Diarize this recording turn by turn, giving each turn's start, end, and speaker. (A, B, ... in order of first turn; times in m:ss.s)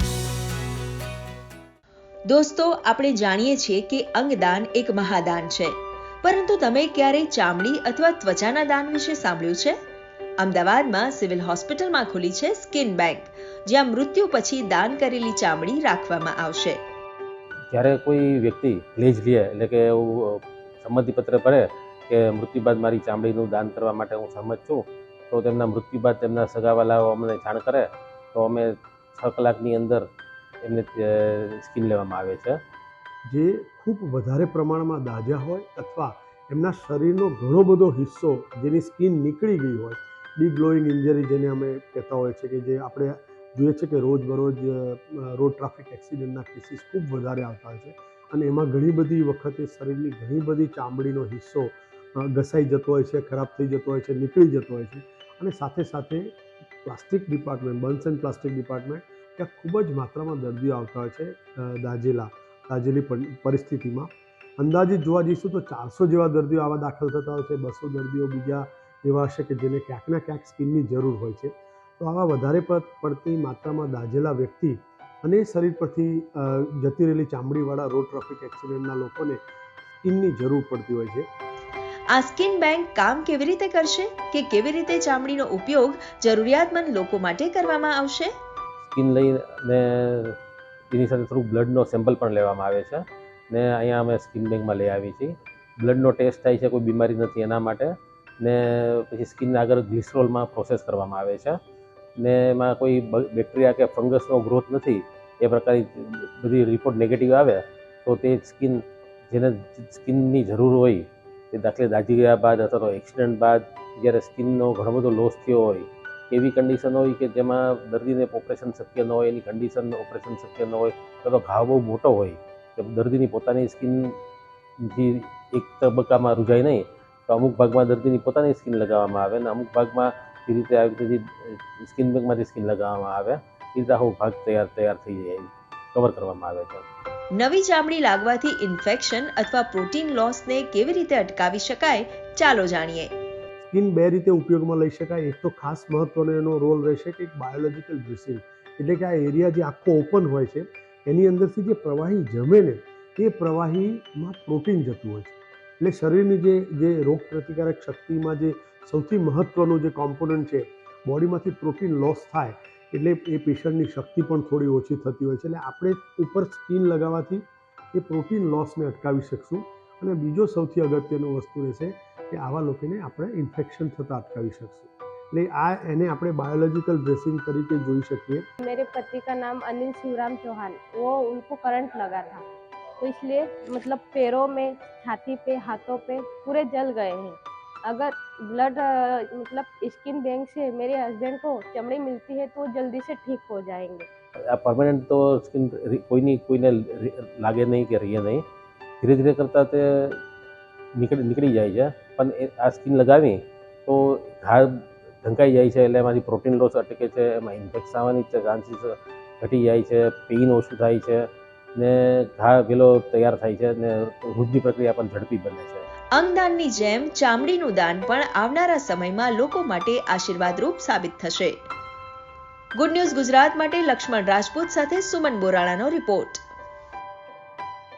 0:02.3-0:09.8 A
0:10.4-0:16.8 A
0:17.7-0:30.1 B
0:30.6-0:32.6 B
0:33.3-1:19.4 C
1:20.0-1:21.3 C
1:22.1-1:28.3 A
1:28.8-1:30.4 B
1:30.9-1:41.6 B
1:42.2-2:04.2 B
2:04.8-2:16.8 B
2:17.4-2:23.1 A
2:23.7-2:58.5 C
2:58.6-3:02.4 D
3:03.0-3:14.1 D
3:14.5-3:18.4 B
3:19.0-3:20.2 B
3:21.0-3:35.9 B
3:36.1-3:41.7 A
3:42.8-3:46.4 A